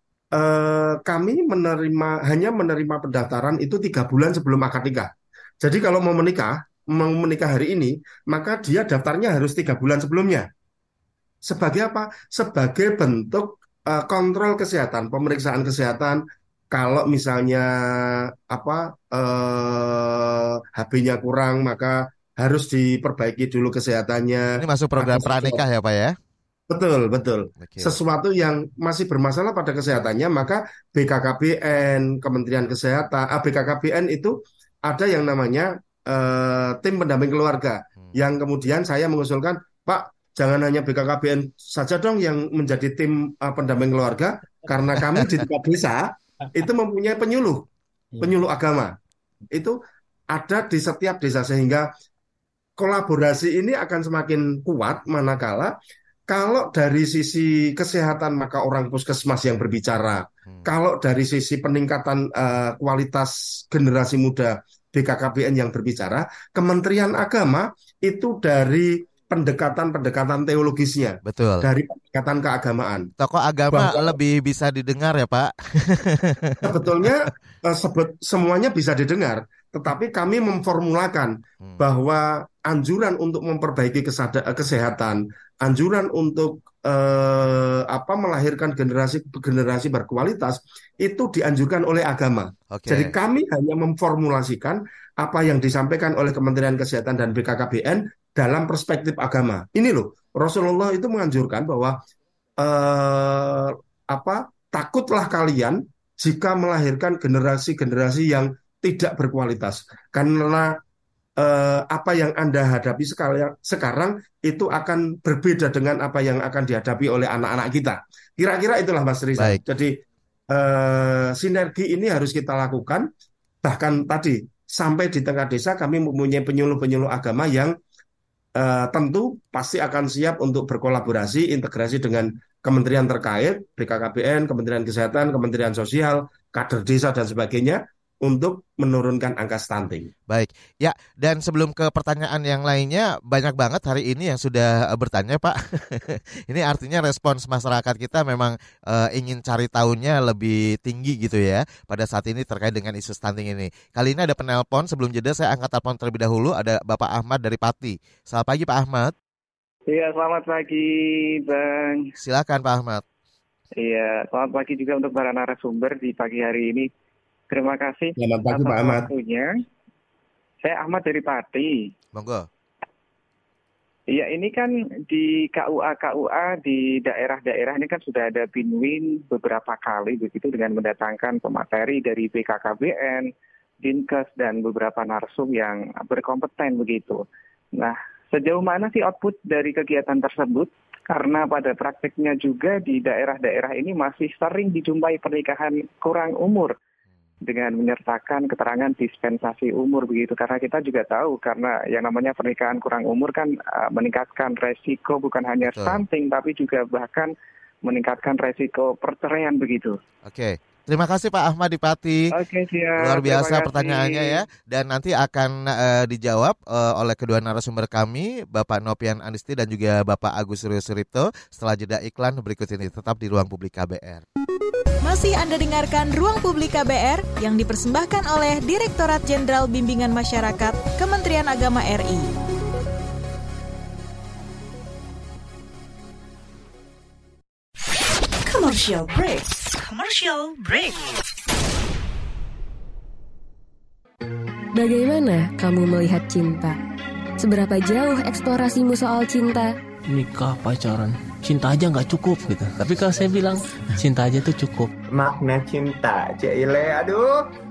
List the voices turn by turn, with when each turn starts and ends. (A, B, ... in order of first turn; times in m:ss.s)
0:00.3-0:10.5 A
0:11.4-0:25.6 A
0:24.6-0:26.2 B
0:26.7-0:47.6 A
0:27.6-0:28.0 B
0:38.0-0:38.2 B
0:48.2-0:48.9 A
0:49.5-0:49.8 A
0:50.3-0:51.9 A
0:52.8-0:55.7 A
0:56.3-1:13.1 A
1:11.2-1:11.7 B
1:13.2-1:16.8 B
1:13.7-1:14.1 A
1:16.6-1:42.0 A
1:32.7-1:33.1 B
1:42.6-1:50.7 A
1:51.4-2:03.1 A
1:59.4-1:59.6 B
2:03.6-2:07.7 A
2:08.5-2:20.1 A
2:20.3-2:39.1 B
2:39.9-2:42.1 C
2:42.2-2:43.0 B
2:43.8-2:46.9 C
2:47.5-2:49.5 C
2:48.2-2:49.1 A
2:50.6-2:51.9 C
2:52.1-2:52.5 B
2:54.1-3:03.3 C
3:03.8-3:07.2 C
3:07.8-3:16.7 C
3:17.4-3:27.3 C
3:25.7-3:26.0 B
3:27.8-3:30.0 C
3:30.2-3:32.3 B
3:32.3-3:34.4 C
3:33.0-3:44.2 B
3:45.0-3:52.3 D
3:58.4-4:01.2 E
4:04.7-4:06.8 F
4:07.4-4:09.7 F
4:10.1-4:14.9 G
4:15.0-4:17.5 H